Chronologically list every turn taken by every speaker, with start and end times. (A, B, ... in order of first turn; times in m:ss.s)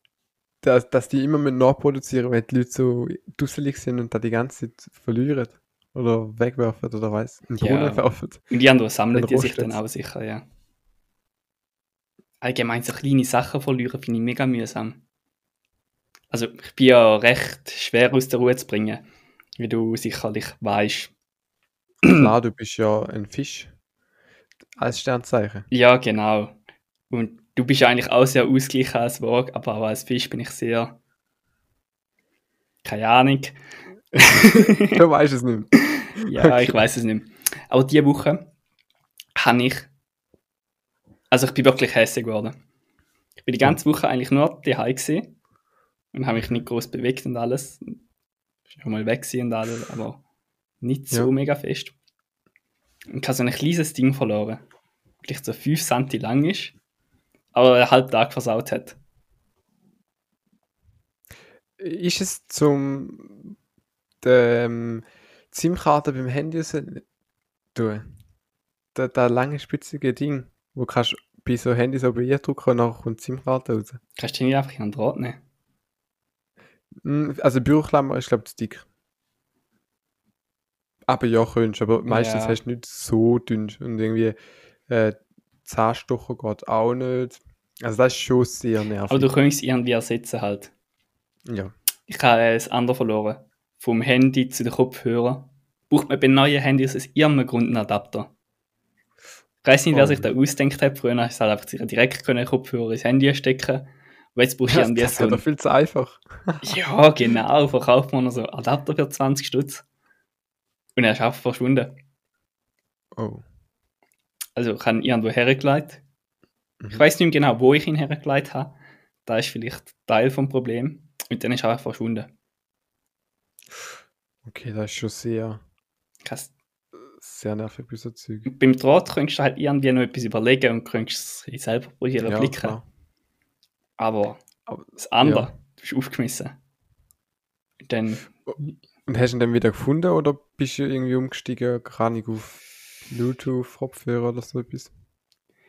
0:00.6-0:08.4 A
0:07.6-0:10.4 B
0:09.1-0:09.8 A
0:12.4-0:15.0 B
0:16.3-0:19.0 B
0:19.6-0:21.1 B
0:22.0-0:22.3 B
0:22.0-0:23.7 A
0:24.8-0:25.7 A
0:25.7-0:26.6 B
0:27.1-0:31.0 B
0:32.8-0:33.6 B
0:34.2-0:35.0 B
0:34.2-0:35.7 A
0:36.0-0:38.4 B
0:36.2-0:36.8 A
0:39.4-0:39.9 B
0:41.3-0:42.6 B
0:43.4-0:45.3 B
0:46.1-0:48.0 B
0:48.7-0:50.2 B
0:50.8-0:51.9 B
0:53.1-0:54.6 B
0:55.2-0:56.7 B
0:57.5-0:59.0 B
1:01.8-1:03.5 A
1:04.2-1:07.0 A
1:07.7-1:08.1 A
1:08.9-1:14.0 A
1:14.2-1:15.4 B
1:17.0-1:18.8 A
1:21.1-1:24.4 A
1:22.1-1:22.6 B
1:24.9-1:29.3 A
1:29.1-1:30.7 B
1:31.4-1:31.7 A
1:32.1-1:38.3 B
1:39.6-1:45.4 B
1:39.9-1:40.3 A
1:44.7-1:46.8 A
1:46.6-1:49.8 B
1:51.0-1:51.9 B
1:53.1-1:53.4 A
1:54.6-1:56.0 B
1:56.9-1:58.7 B
1:59.2-2:02.3 B
2:04.4-2:05.6 A
2:06.2-2:06.5 B
2:07.1-2:08.5 A
2:08.4-2:12.8 B
2:12.2-2:12.8 A
2:14.0-2:14.4 B
2:14.7-2:15.5 A
2:14.9-2:16.5 B
2:17.8-2:18.7 B
2:18.5-2:24.9 A